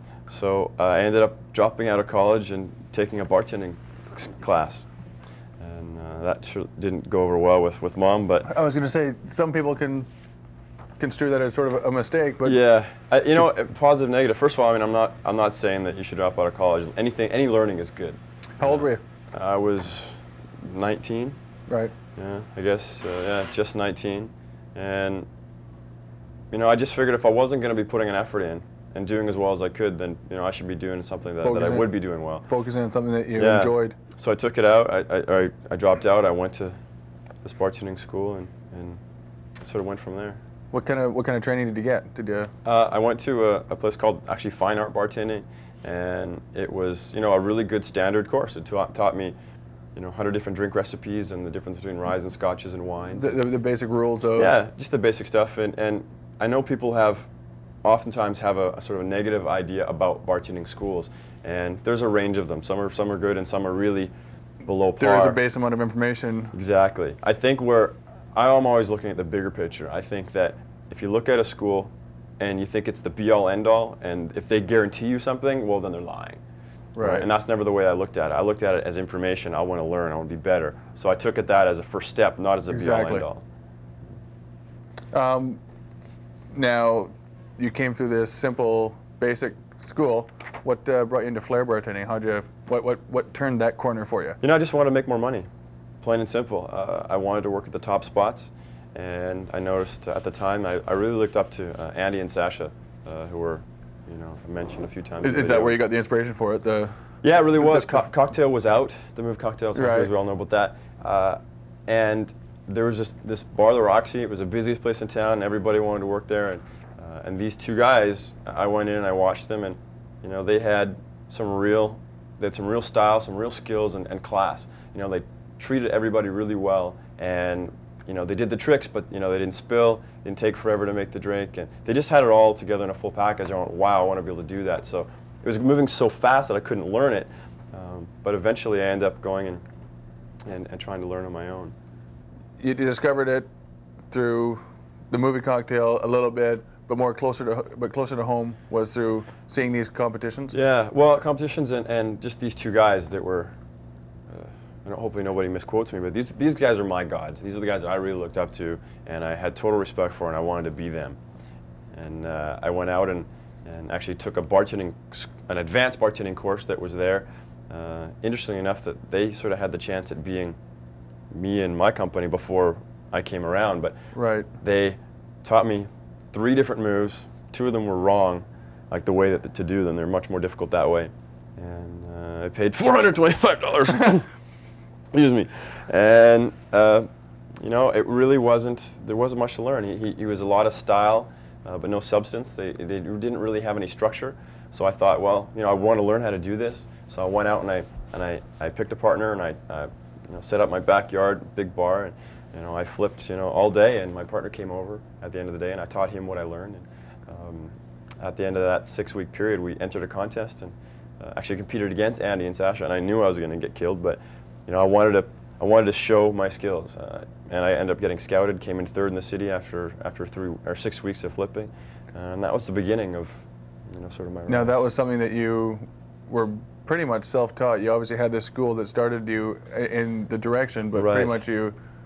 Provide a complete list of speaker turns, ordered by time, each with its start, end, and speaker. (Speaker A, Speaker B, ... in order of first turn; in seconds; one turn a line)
Speaker A: 0.3-4.8
Speaker A: 5.6-8.5
Speaker B: 8.4-10.1
Speaker B: 11.0-12.6
Speaker A: 12.4-21.4
Speaker B: 18.6-19.0
Speaker B: 21.7-21.9
Speaker A: 22.1-25.3
Speaker A: 26.5-32.5
Speaker B: 31.4-31.9
Speaker B: 32.5-34.0
Speaker A: 33.4-36.8
Speaker A: 37.4-39.0
Speaker A: 39.6-40.4
Speaker B: 40.7-42.5
Speaker A: 42.6-49.3
Speaker A: 49.9-53.4
Speaker B: 53.1-54.5
Speaker A: 54.4-57.3
Speaker A: 57.8-64.1
Speaker A: 64.6-65.4
Speaker B: 65.0-66.5
Speaker A: 66.5-76.4
Speaker B: 77.0-77.3
Speaker A: 77.0-83.4
Speaker B: 82.7-83.2
Speaker B: 85.1-85.6
Speaker B: 86.5-94.4
Speaker A: 94.4-95.5
Speaker A: 96.0-105.8
Speaker B: 105.2-106.9
Speaker A: 107.2-139.6
Speaker B: 107.5-108.1
Speaker B: 109.7-110.1
Speaker A: 140.4-141.7
Speaker B: 142.6-143.5
Speaker B: 144.1-150.5
Speaker A: 150.5-153.6
Speaker A: 154.3-161.2
Speaker A: 161.9-170.6
Speaker A: 171.3-174.0
Speaker B: 174.1-174.5
Speaker A: 174.6-184.3
Speaker A: 185.1-224.9
Speaker B: 224.5-231.7
Speaker A: 230.9-231.4